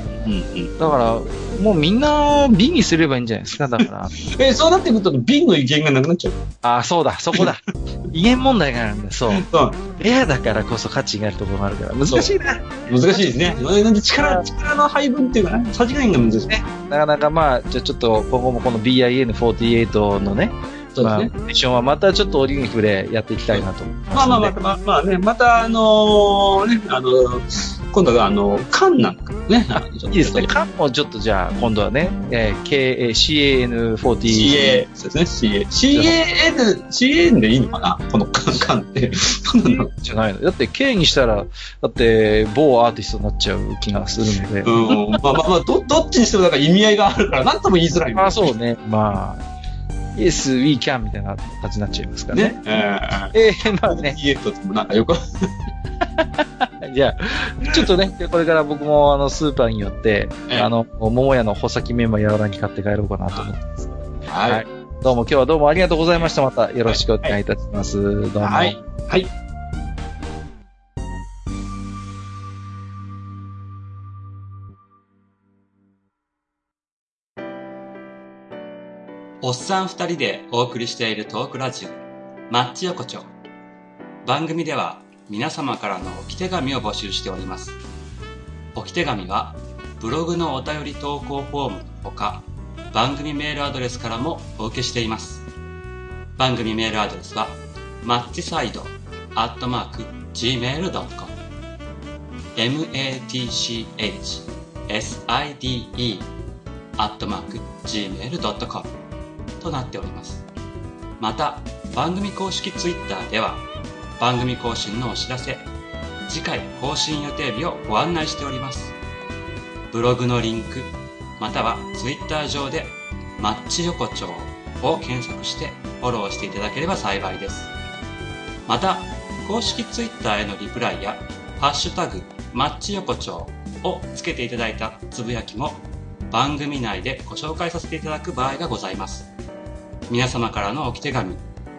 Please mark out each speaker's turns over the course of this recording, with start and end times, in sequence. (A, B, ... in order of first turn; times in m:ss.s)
0:00.2-0:00.7 A
0:00.8-0:04.2 B
0:03.8-0:06.4 A
0:06.6-0:09.5 B
0:09.3-0:09.8 A
0:10.0-0:13.2 B
0:12.8-0:16.6 A
0:14.2-0:14.4 B
0:16.5-0:24.6 B
0:20.9-0:21.3 A
0:23.5-0:30.5 A
0:30.1-0:34.8 B
0:34.3-0:39.9 A
0:39.7-0:45.2 B
0:44.6-0:48.5 A
0:48.2-0:49.4 B
0:50.1-0:52.6 B
0:52.3-0:53.3 A
0:53.3-0:54.2 B
0:53.8-0:55.5 A
0:56.2-1:08.8 B
1:04.3-1:04.6 A
1:06.8-1:07.4 A
1:08.4-1:09.3 A
1:19.4-1:22.0 C
1:22.5-1:23.3 C
1:24.2-1:27.8 C
1:28.7-1:35.5 C
1:36.4-1:41.3 C
1:42.5-1:46.3 C
1:47.0-1:48.9 C
1:49.6-1:50.4 C
1:51.2-1:53.6 C
1:54.2-1:55.7 C
1:56.2-1:59.0 C
1:59.9-2:07.7 C
2:08.7-2:19.3 C
2:20.1-2:21.4 C